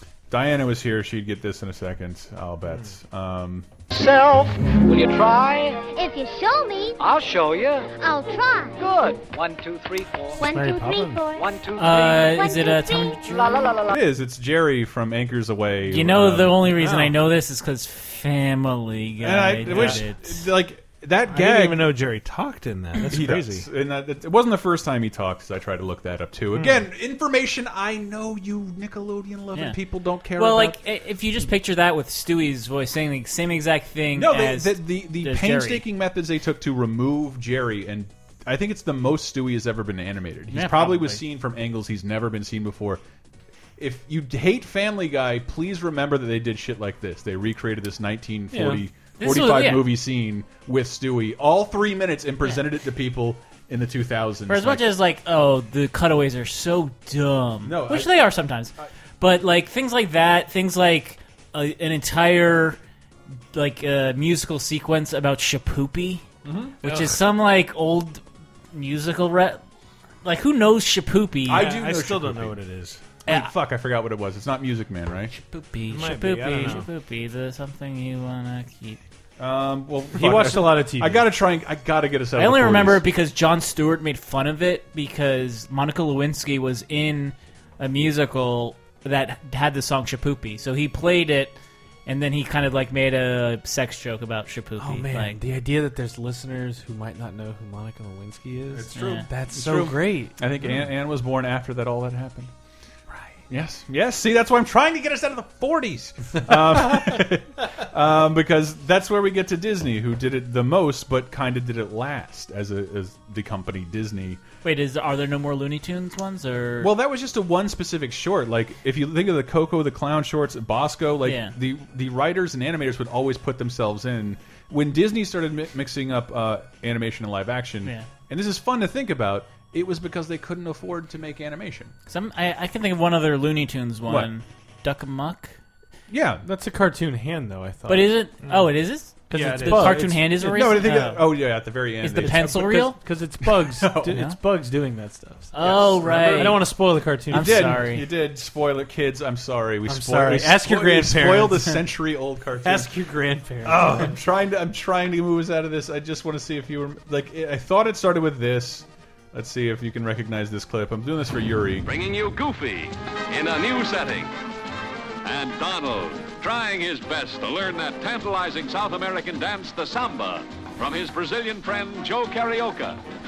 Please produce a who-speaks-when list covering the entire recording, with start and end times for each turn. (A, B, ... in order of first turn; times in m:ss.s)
0:00.3-0:03.7 A
0:03.9-0:05.8 B
0:05.8-0:07.0 C
0:07.0-0:07.9 B
0:07.9-0:08.9 C
0:08.8-0:10.4 B
0:10.3-0:13.2 C
0:10.5-0:11.2 D
0:11.4-0:12.2 B
0:11.8-0:13.8 E
0:13.9-0:16.6 A
0:15.9-0:20.5 E
0:16.7-0:17.2 F
0:19.2-0:21.9 A
0:21.3-0:23.7 F
0:23.0-0:30.8 A
0:26.6-0:26.8 F
0:30.3-0:35.8 E
0:34.1-0:43.0 A
0:40.5-0:41.2 E
0:43.8-0:54.9 A
0:48.5-0:48.8 D
0:49.2-0:49.9 E
0:54.5-1:02.8 E
0:57.6-0:58.2 A
1:03.5-1:06.2 E
1:06.4-1:07.2 A
1:06.8-1:08.2 E
1:08.7-1:09.6 E
1:10.2-1:11.7 E
1:11.5-1:12.6 A
1:11.5-1:13.0 F
1:13.2-1:15.3 A
1:15.5-1:19.0 E
1:15.9-1:16.8 F
1:19.4-1:23.0 A
1:20.1-1:21.3 D
1:22.4-1:35.4 E
1:34.8-1:40.4 D
1:38.7-1:42.5 A
1:39.0-1:39.2 E
1:43.5-1:54.4 A
1:54.6-1:56.9 E
1:56.8-2:11.9 A
2:01.2-2:01.5 E
2:12.1-2:15.6 E
2:14.0-2:14.3 A
2:16.1-2:16.4 A
2:16.4-2:18.2 D
2:17.9-2:23.0 E
2:19.3-2:20.1 D
2:19.5-2:19.8 F
2:19.6-2:22.6 A
2:22.2-2:27.8 D
2:23.6-2:24.2 A
2:25.5-2:28.1 E
2:25.6-2:26.6 A
2:27.3-2:32.9 A
2:29.9-2:31.8 D
2:32.6-2:34.2 D
2:33.6-2:41.9 A
2:41.8-2:44.3 G
2:45.2-2:53.0 G